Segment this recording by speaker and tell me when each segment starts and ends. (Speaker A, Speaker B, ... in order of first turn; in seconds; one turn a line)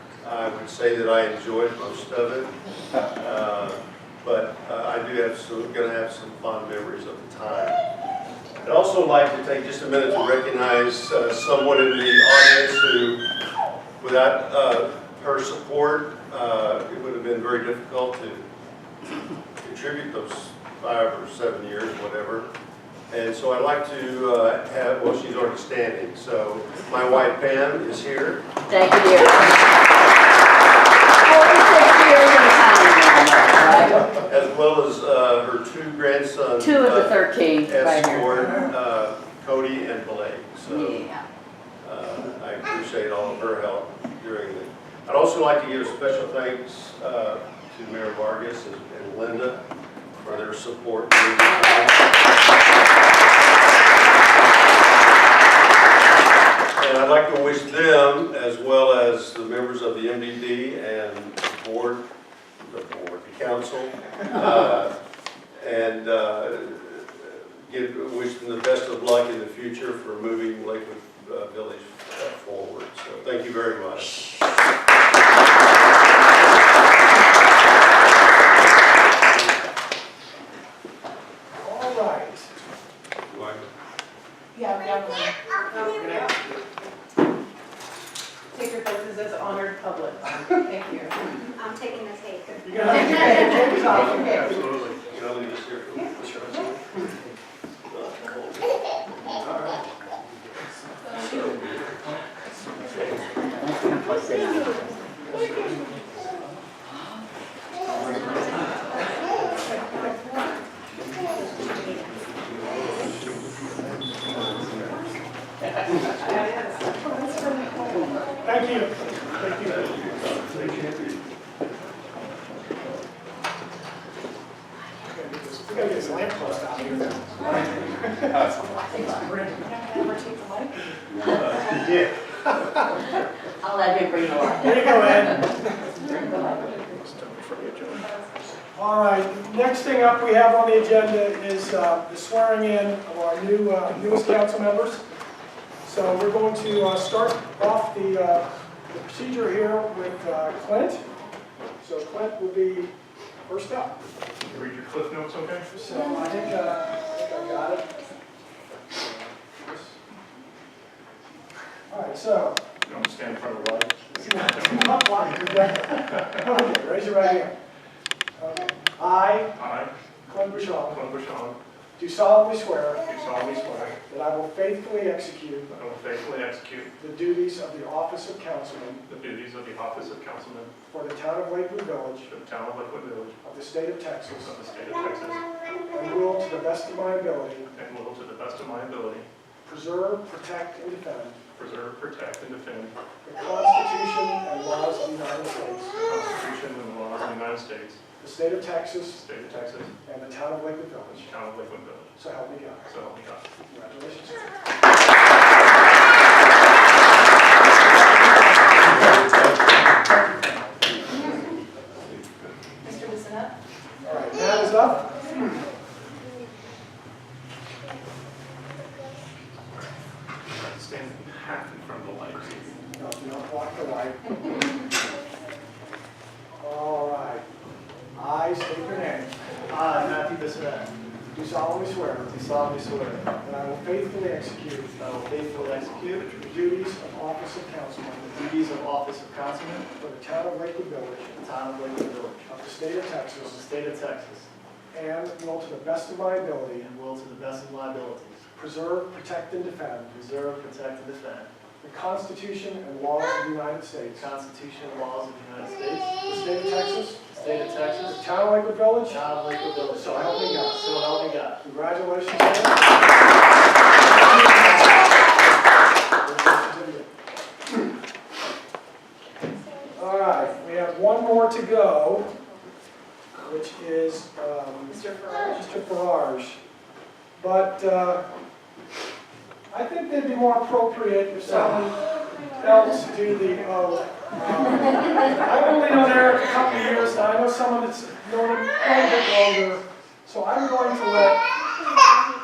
Speaker A: 0.2-7.8
Speaker A: 8.6-13.2
Speaker A: 14.0-18.5
Speaker A: 19.6-22.5
Speaker A: 23.1-28.5
Speaker B: 28.7-29.6
Speaker B: 31.2-34.2
Speaker A: 34.2-41.0
Speaker B: 36.6-38.6
Speaker B: 40.7-41.2
Speaker A: 41.8-49.6
Speaker A: 50.2-52.0
Speaker A: 56.8-62.1
Speaker A: 62.6-64.9
Speaker A: 65.6-74.2
Speaker C: 81.6-82.5
Speaker A: 83.3-83.6
Speaker D: 84.5-86.3
Speaker C: 85.8-86.3
Speaker D: 88.5-91.2
Speaker E: 91.6-93.6
Speaker C: 92.6-94.8
Speaker A: 93.2-96.8
Speaker C: 96.2-96.8
Speaker A: 97.9-98.8
Speaker B: 103.6-104.8
Speaker D: 116.2-118.2
Speaker C: 118.4-120.1
Speaker A: 119.6-121.2
Speaker C: 125.1-128.6
Speaker B: 128.6-129.3
Speaker D: 129.1-130.8
Speaker A: 131.6-132.1
Speaker B: 133.6-135.4
Speaker C: 134.6-135.9
Speaker F: 136.4-138.1
Speaker C: 138.8-145.0
Speaker C: 145.8-151.0
Speaker C: 151.8-152.9
Speaker C: 153.5-154.0
Speaker F: 154.5-155.7
Speaker C: 155.7-158.0
Speaker C: 158.9-160.0
Speaker C: 161.9-162.6
Speaker F: 162.8-165.2
Speaker C: 164.1-167.6
Speaker C: 168.4-169.6
Speaker F: 169.6-169.9
Speaker C: 170.3-171.0
Speaker F: 170.9-171.6
Speaker C: 172.0-173.1
Speaker F: 173.0-174.0
Speaker C: 173.9-175.7
Speaker F: 175.7-176.9
Speaker C: 177.0-179.0
Speaker F: 179.1-180.7
Speaker C: 180.9-182.3
Speaker F: 182.3-183.4
Speaker C: 183.4-184.6
Speaker F: 184.4-185.4
Speaker C: 185.9-187.7
Speaker F: 187.7-189.3
Speaker C: 189.7-191.4
Speaker F: 191.6-192.9
Speaker C: 193.2-196.0
Speaker F: 196.0-198.0
Speaker C: 198.2-199.2
Speaker F: 199.1-199.9
Speaker C: 200.1-201.3
Speaker F: 201.1-202.2
Speaker C: 202.2-202.9
Speaker F: 202.8-203.4
Speaker C: 203.7-204.5
Speaker A: 212.0-212.5
Speaker D: 212.8-213.5
Speaker C: 214.0-215.0
Speaker F: 220.5-222.8
Speaker C: 222.9-224.4
Speaker C: 226.6-227.5
Speaker C: 228.2-229.3
Speaker G: 229.7-230.9
Speaker C: 231.3-232.4
Speaker G: 232.3-233.4
Speaker C: 233.4-235.0
Speaker G: 235.0-236.3
Speaker F: 235.3-236.9
Speaker C: 236.4-238.4
Speaker G: 238.3-239.9
Speaker C: 240.0-241.5
Speaker G: 241.3-242.7
Speaker C: 242.4-243.6
Speaker G: 243.4-244.5
Speaker C: 244.9-246.9
Speaker G: 246.9-248.5
Speaker C: 248.6-250.3
Speaker G: 250.2-251.5
Speaker C: 251.8-254.3
Speaker G: 254.2-256.2
Speaker C: 256.2-257.3
Speaker G: 257.3-258.2
Speaker C: 258.1-259.3
Speaker G: 259.1-261.6
Speaker C: 259.9-260.9
Speaker C: 261.6-262.9
Speaker C: 264.1-265.4
Speaker C: 266.2-267.1
Speaker C: 269.9-272.3
Speaker C: 273.4-276.6
Speaker D: 274.9-275.6
Speaker C: 277.4-278.2
Speaker C: 279.7-291.5